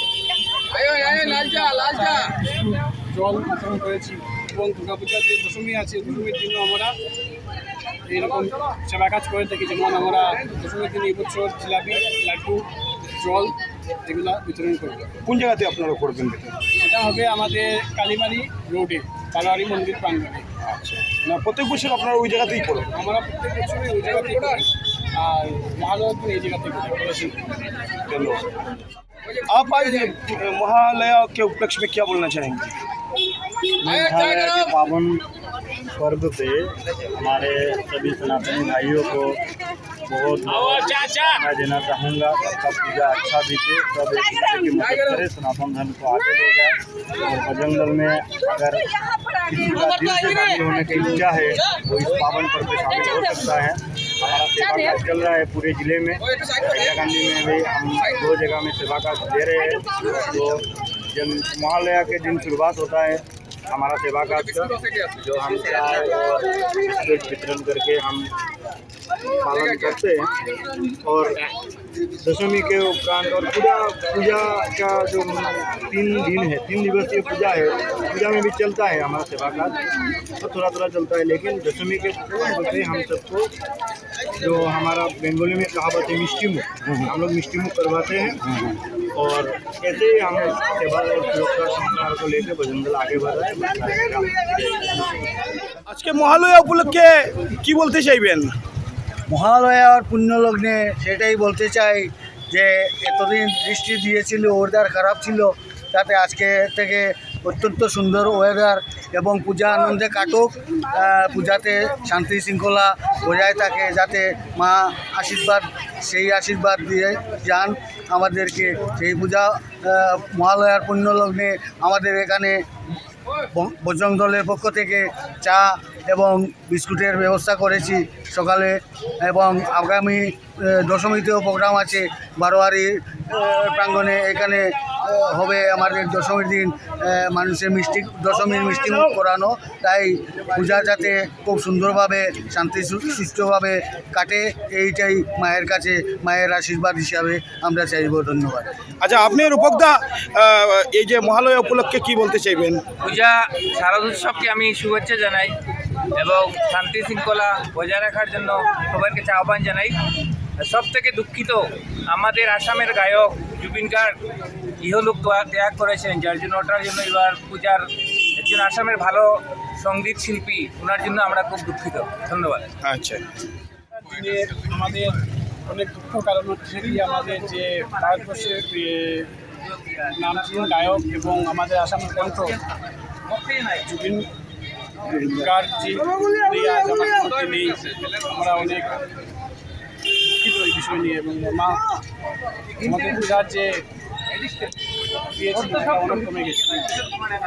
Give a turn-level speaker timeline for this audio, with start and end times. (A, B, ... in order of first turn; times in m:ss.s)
0:00.8-0:07.0 A
0:08.1-0:15.1 A
0:15.2-0:16.6 B
0:16.7-0:20.5 A
0:20.6-0:22.9 B
0:22.9-0:27.6 A
0:28.1-0:28.6 B
0:29.5-0:32.7 B
0:33.8-0:35.2 C
0:36.0-0:39.4 C
0:40.1-0:48.9 C
0:49.4-1:08.4 C
1:09.4-1:10.3 C
1:11.0-1:11.4 C
1:12.2-1:19.8 C
1:20.4-1:23.5 C
1:24.4-1:28.5 C
1:29.2-1:35.0 C
1:35.9-1:38.6 B
1:39.3-2:02.6 D
2:03.5-2:28.7 D
2:29.0-2:32.8 B
2:33.0-2:35.6 E
2:36.1-2:40.0 E
2:40.6-2:44.2 E
2:44.8-2:52.7 E
2:52.8-2:53.2 B
2:54.1-2:59.3 A
3:00.1-3:02.6 A
3:03.8-3:04.3 A
3:05.2-3:09.0 A
3:10.4-3:11.8 A
3:12.8-3:13.8 A
3:15.3-3:16.9 A